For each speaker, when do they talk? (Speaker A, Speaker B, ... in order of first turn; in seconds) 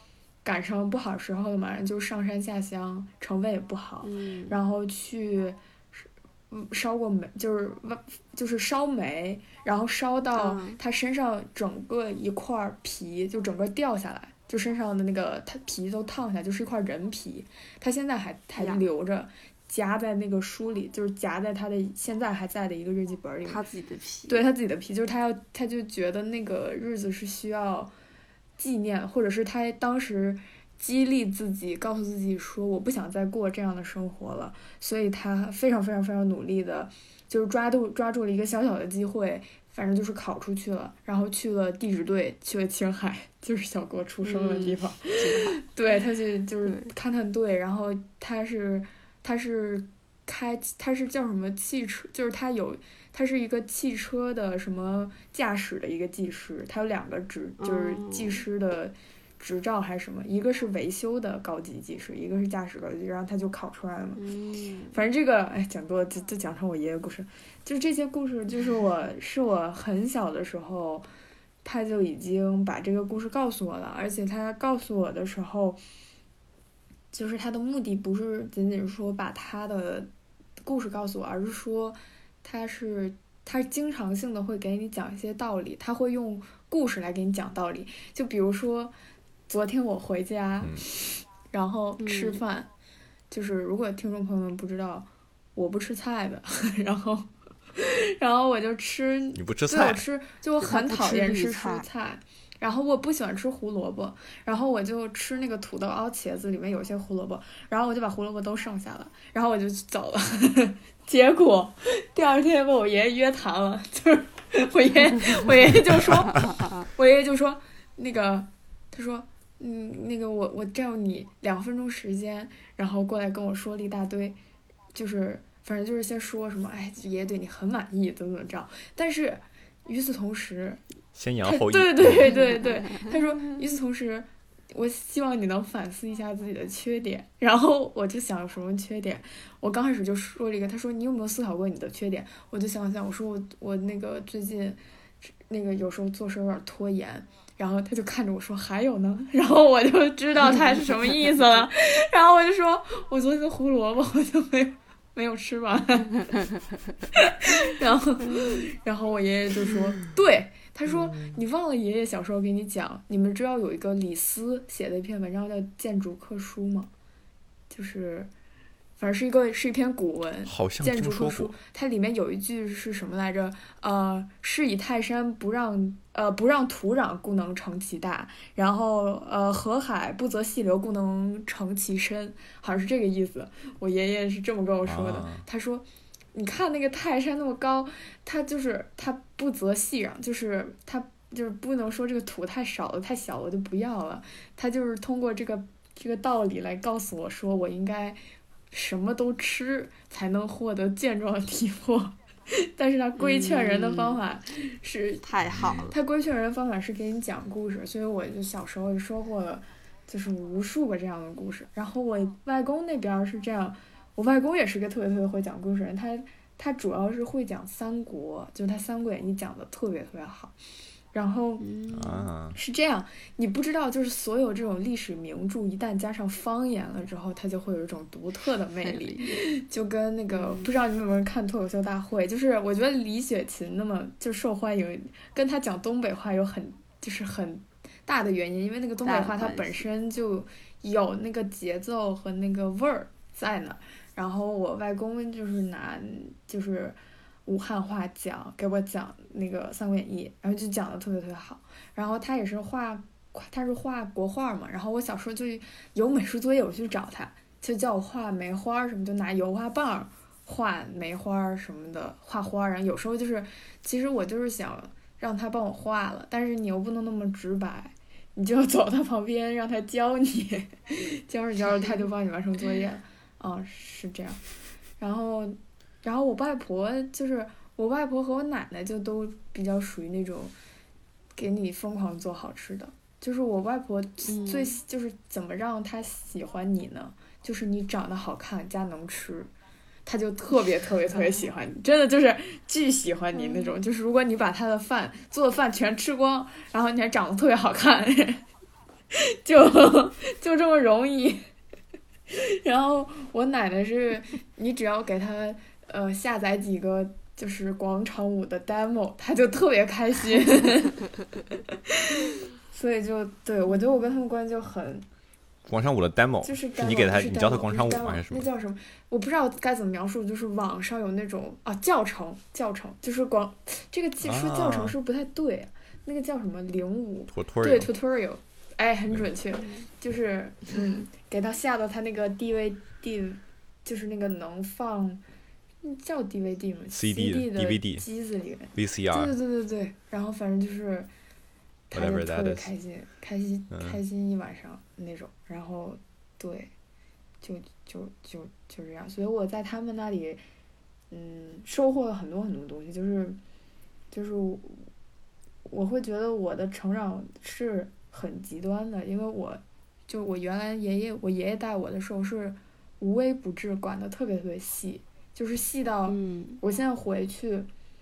Speaker A: 0.4-23.6, 24.3-27.9, 28.6-64.2, 64.9-71.1, 71.6-75.8, 77.1-80.1, 80.6-88.9, 89.5-92.7, 93.3-124.4, 124.9-130.8, 131.4-144.8, 145.5-156.4, 157.1-166.9, 167.7-168.3, 169.0-198.2, 198.7-205.2, 205.9-220.6, 221.1-221.7, 222.5-274.4, 275.0-280.5, 281.4-289.5, 290.1-298.4, 299.1-301.5, 302.3-311.0, 311.9-315.1, 316.4-335.2, 335.8-341.1, 341.9-346.7, 347.4-350.4, 351.1-353.4, 354.1-354.9, 355.7-367.7
Speaker B: 4.0-4.6, 10.3-10.8, 18.6-18.8, 23.4-24.4, 44.2-45.6, 46.6-46.9, 57.6-58.4, 64.2-65.0, 92.0-92.4, 100.6-101.9, 116.0-116.9, 203.2-204.2, 205.2-205.9, 221.6-222.3, 228.8-229.4, 230.3-230.7, 239.0-239.8, 284.3-284.8, 291.1-291.5, 293.3-293.7, 366.1-366.6
Speaker C: 99.3-100.0, 131.1-132.3, 170.4-171.5, 184.8-185.4, 205.5-205.8, 221.9-222.6, 315.7-318.5, 324.2-324.9, 327.3-327.9, 336.9-338.0, 338.8-339.3, 341.9-342.7